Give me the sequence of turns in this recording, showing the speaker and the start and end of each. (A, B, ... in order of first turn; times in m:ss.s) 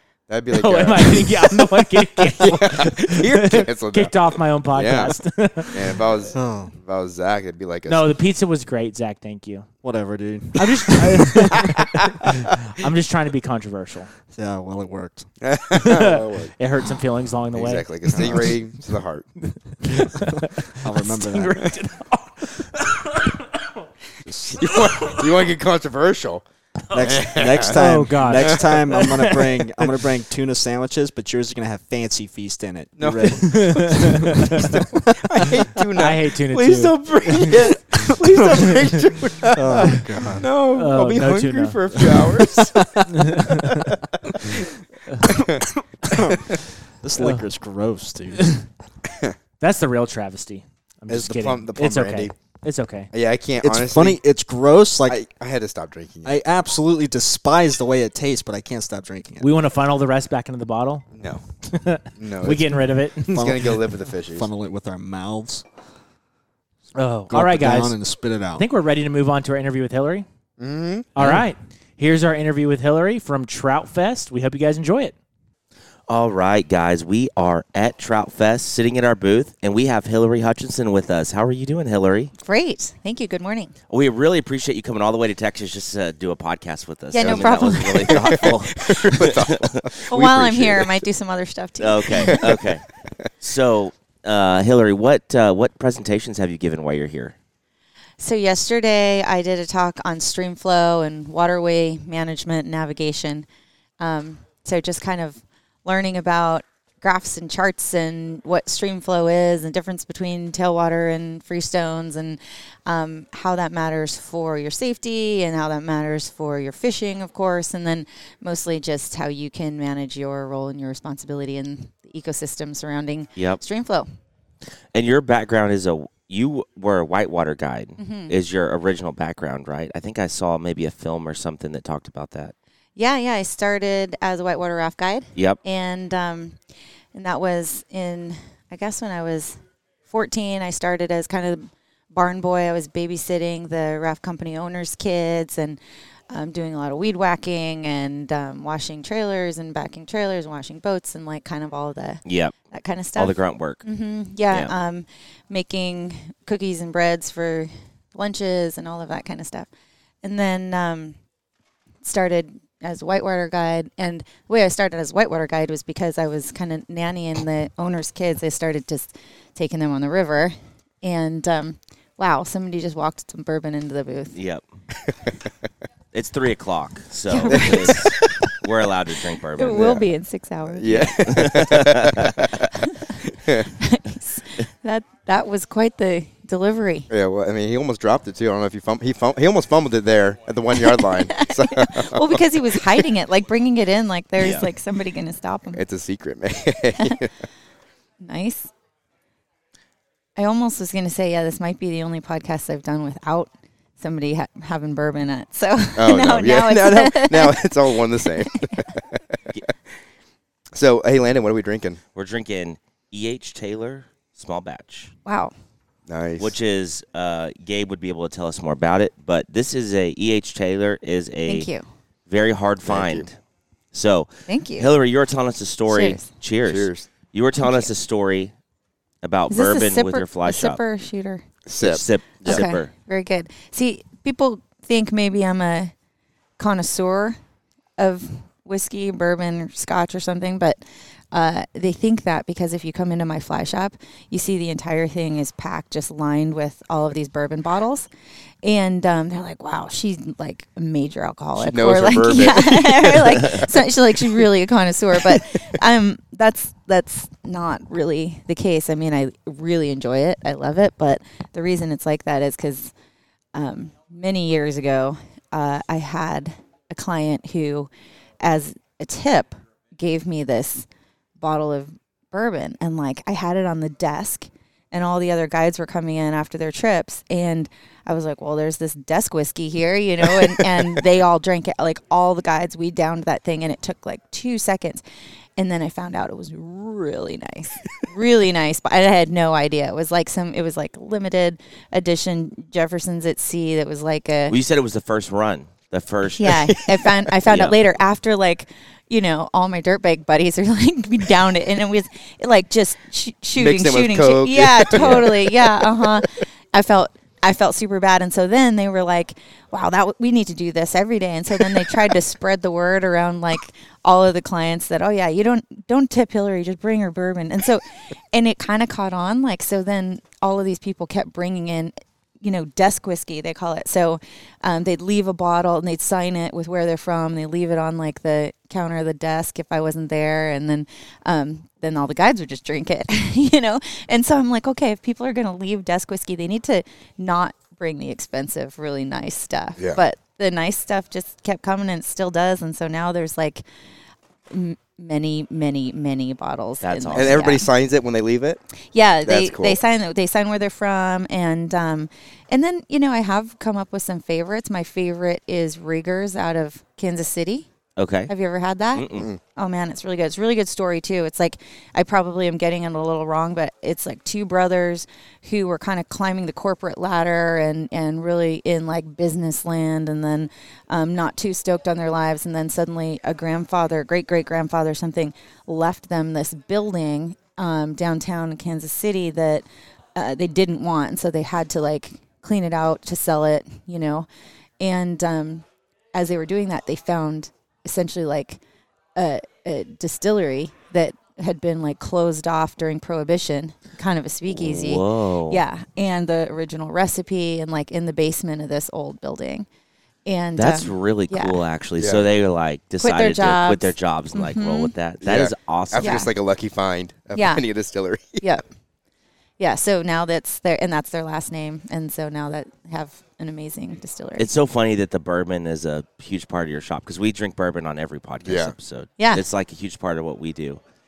0:00.3-0:04.2 A
0:00.5-0:06.0 B
0:04.7-0:05.2 A
0:05.7-0:08.1 A
0:06.3-0:06.7 C
0:07.9-0:09.7 B
0:09.8-0:11.7 C
0:10.6-0:11.9 B
0:12.7-0:14.1 B
0:14.3-0:15.3 C
0:15.4-0:16.5 A
0:15.8-0:18.5 B
0:17.5-0:19.3 A
0:18.1-0:18.5 C
0:19.8-0:23.7 B
0:20.8-0:21.7 C
0:24.2-0:24.6 C
0:24.5-0:27.8 A
0:26.9-0:34.8 C
0:27.6-0:29.8 B
0:33.0-0:44.6 A
0:33.4-0:34.7 B
0:36.0-0:37.5 B
0:39.5-0:40.5 C
0:40.7-0:41.8 B
0:43.1-0:43.9 B
0:45.2-0:45.6 A
0:46.1-0:46.4 C
0:47.0-0:48.6 C
0:47.2-0:47.4 B
0:49.6-0:53.1 B
0:51.1-0:52.3 A
0:53.1-0:54.2 A
0:53.6-0:55.2 C
0:55.1-0:56.4 A
0:56.2-0:59.5 C
0:59.4-1:01.0 B
1:01.1-1:01.4 A
1:01.7-1:03.5 B
1:02.2-1:04.5 A
1:03.3-1:03.7 C
1:04.3-1:05.7 C
1:06.9-1:08.0 B
1:07.3-1:08.6 C
1:08.6-1:10.2 B
1:10.6-1:11.1 A
1:11.1-1:15.1 B
1:16.1-1:22.3 D
1:22.4-1:23.7 E
1:23.9-1:29.8 D
1:27.1-1:28.5 E
1:27.2-1:31.0 A
1:30.1-1:32.4 E
1:31.8-1:32.8 D
1:32.2-1:32.6 A
1:33.4-1:37.3 D
1:38.2-1:43.5 E
1:44.0-2:04.1 E
2:03.4-2:03.6 D
2:04.9-2:12.5 D
2:08.0-2:08.3 E
2:13.0-2:16.6 E
2:17.1-2:25.8 E
2:26.3-2:39.7 E
2:32.2-2:32.5 D
2:33.2-2:33.8 D
2:40.2-2:41.2 E
2:42.0-2:54.3 E
2:54.3-2:54.6 D
2:56.1-2:59.8 D
2:57.3-2:58.2 E
2:57.5-2:58.0 A
2:59.5-3:01.3 E
2:59.6-3:00.1 A
3:00.8-3:02.7 A
3:01.2-3:02.3 D
3:03.2-3:03.7 A
3:03.8-3:07.1 E
3:07.1-3:13.0 A
3:10.7-3:15.8 E
3:14.4-3:14.7 D
3:15.7-3:17.3 A
3:18.2-3:18.7 E
3:20.4-3:28.4 E
3:26.0-3:29.2 A
3:30.7-3:32.0 A
3:32.1-3:35.1 D
3:35.2-3:35.5 E
3:36.1-3:36.6 A
3:36.4-3:41.7 D
3:41.4-3:41.8 E
3:42.3-3:43.4 D
3:42.8-3:43.3 A
3:43.9-3:48.5 D
3:44.5-3:44.9 E
3:45.9-3:46.3 E
3:46.6-3:47.1 A
3:47.6-3:47.9 E
3:49.2-3:50.8 D
3:49.5-3:51.4 E
3:51.6-3:52.6 A
3:51.8-3:52.9 D
3:52.4-3:55.9 E
3:56.6-3:57.4 E
3:58.0-4:00.8 E
4:01.3-4:08.1 E
4:08.6-4:22.9 E
4:11.6-4:13.5 A
4:23.5-4:27.9 E
4:28.4-4:30.8 E
4:31.4-4:45.0 E
4:45.6-4:54.6 E
4:54.5-4:56.5 D
4:56.4-5:43.6 E
4:56.7-4:57.0 A
4:57.5-4:57.8 D
5:03.6-5:06.2 A
5:05.0-5:05.3 D
5:39.8-5:40.0 A
5:44.5-5:47.7 E
5:46.8-5:47.5 D
5:47.1-5:48.6 A
5:48.9-5:57.7 E
5:49.2-5:49.8 A
5:58.0-5:58.3 D
5:58.3-6:24.3 E
5:58.9-5:59.3 D
5:59.1-5:59.4 A
6:24.8-6:28.6 E
6:29.2-6:39.7 E
6:34.5-6:35.6 D
6:40.2-6:41.6 E
6:40.6-6:46.2 D
6:42.0-6:42.3 A
6:43.0-6:44.9 E
6:45.2-6:48.5 A
6:46.0-6:46.3 E
6:47.3-6:47.6 E
6:49.6-6:54.5 E
6:54.4-7:00.8 D
6:58.4-6:58.7 A
6:59.2-6:59.4 E